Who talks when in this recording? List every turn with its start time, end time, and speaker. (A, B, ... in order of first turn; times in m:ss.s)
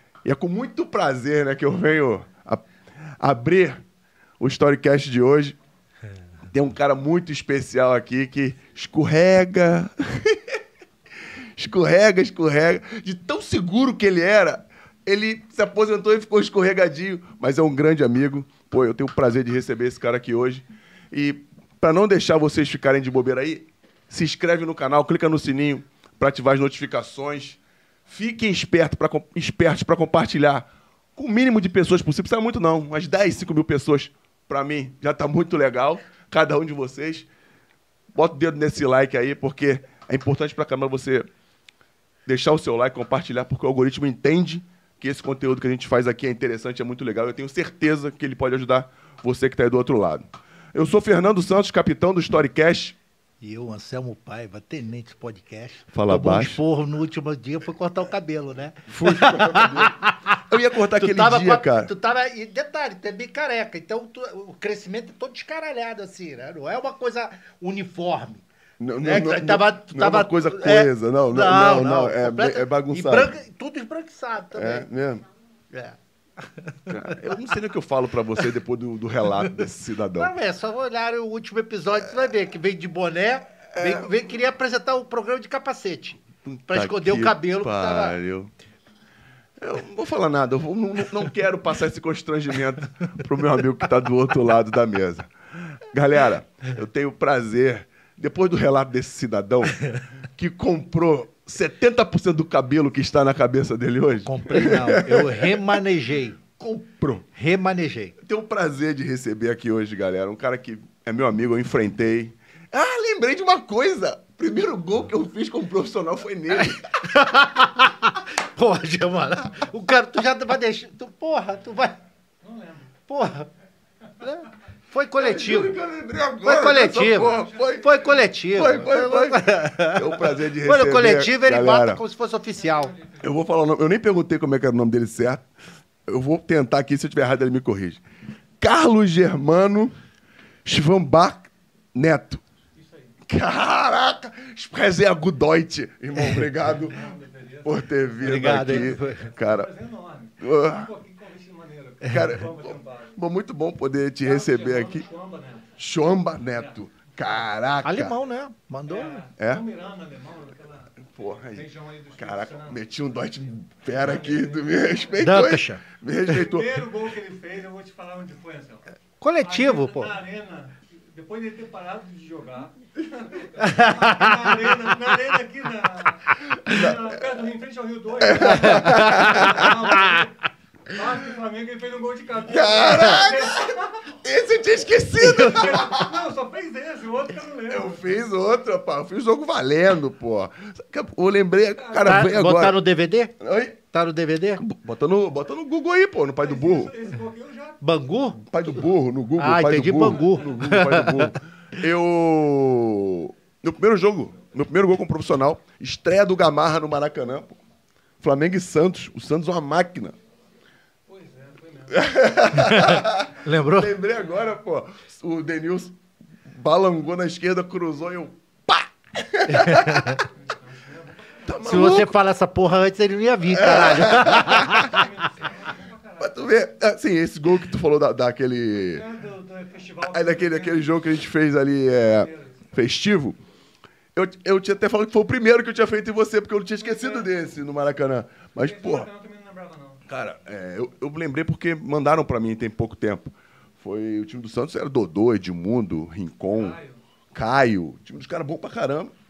0:00.2-0:02.6 A
0:03.2-0:03.8 A
0:04.4-0:05.6 A
0:06.5-0:10.6 A
0:11.6-0:37.3 A
0:38.2-0:41.3 A
0:42.3-0:53.0 A
0:53.4-1:00.3 B
0:55.9-0:56.6 A
0:58.9-1:01.9 A
1:00.9-1:08.4 B
1:08.8-1:13.3 A
1:09.0-1:14.9 B
1:14.5-1:15.2 A
1:15.7-1:17.4 B
1:16.9-1:20.3 A
1:20.2-1:28.2 B
1:23.7-1:24.1 A
1:26.4-1:28.5 A
1:29.6-1:45.6 A
1:44.2-1:48.2 B
1:46.8-1:47.3 A
1:48.2-1:57.0 A
1:56.6-2:02.0 B
2:02.4-2:02.9 C
2:03.1-2:03.5 B
2:04.2-2:05.8 B
2:05.2-2:07.9 A
2:06.4-2:12.9 B
2:08.5-2:12.0 A
2:12.6-2:13.3 C
2:13.2-2:15.5 A
2:16.1-2:18.0 A
2:18.6-2:20.0 A
2:20.6-2:22.4 A
2:22.8-2:23.2 C
2:23.3-2:27.0 A
2:26.8-2:33.2 C
2:27.6-2:29.7 A
2:28.2-2:29.3 B
2:30.4-2:30.9 A
2:32.0-2:35.0 A
2:34.2-2:35.8 C
2:35.8-2:38.2 A
2:37.8-2:39.2 B
2:38.9-2:41.0 C
2:39.4-2:39.6 A
2:41.0-2:46.8 A
2:41.5-2:43.4 C
2:43.9-2:45.1 C
2:45.2-2:45.8 B
2:46.3-2:48.8 C
2:49.2-2:50.2 B
2:49.4-3:00.4 C
2:53.6-2:54.5 B
2:56.6-2:57.1 A
2:58.2-2:59.7 A
2:58.4-2:59.5 B
3:00.9-3:04.2 C
3:02.5-3:06.1 A
3:05.2-3:05.7 B
3:05.4-3:08.0 C
3:07.7-3:12.8 A
3:11.8-3:12.3 C
3:12.0-3:13.4 B
3:13.4-3:13.8 A
3:13.9-3:14.6 B
3:14.6-3:17.0 A
3:16.4-3:17.8 C
3:17.8-3:18.4 B
3:18.5-3:27.6 A
3:19.4-3:21.3 B
3:20.0-3:20.5 C
3:28.2-3:30.2 A
3:31.1-3:32.1 C
3:31.9-3:40.3 A
3:32.6-3:34.0 B
3:39.6-3:40.2 B
3:40.2-3:41.9 C
3:41.5-3:42.2 A
3:41.6-3:45.0 B
3:43.5-3:44.9 A
3:44.2-3:46.4 C
3:46.2-3:49.0 A
3:48.9-3:50.8 C
3:50.0-3:53.4 A
3:52.2-3:52.6 C
3:54.2-3:59.1 A
3:56.8-3:57.3 C
3:58.6-4:00.0 C
4:00.1-4:06.8 A
4:06.5-4:07.0 C
4:07.3-4:09.2 A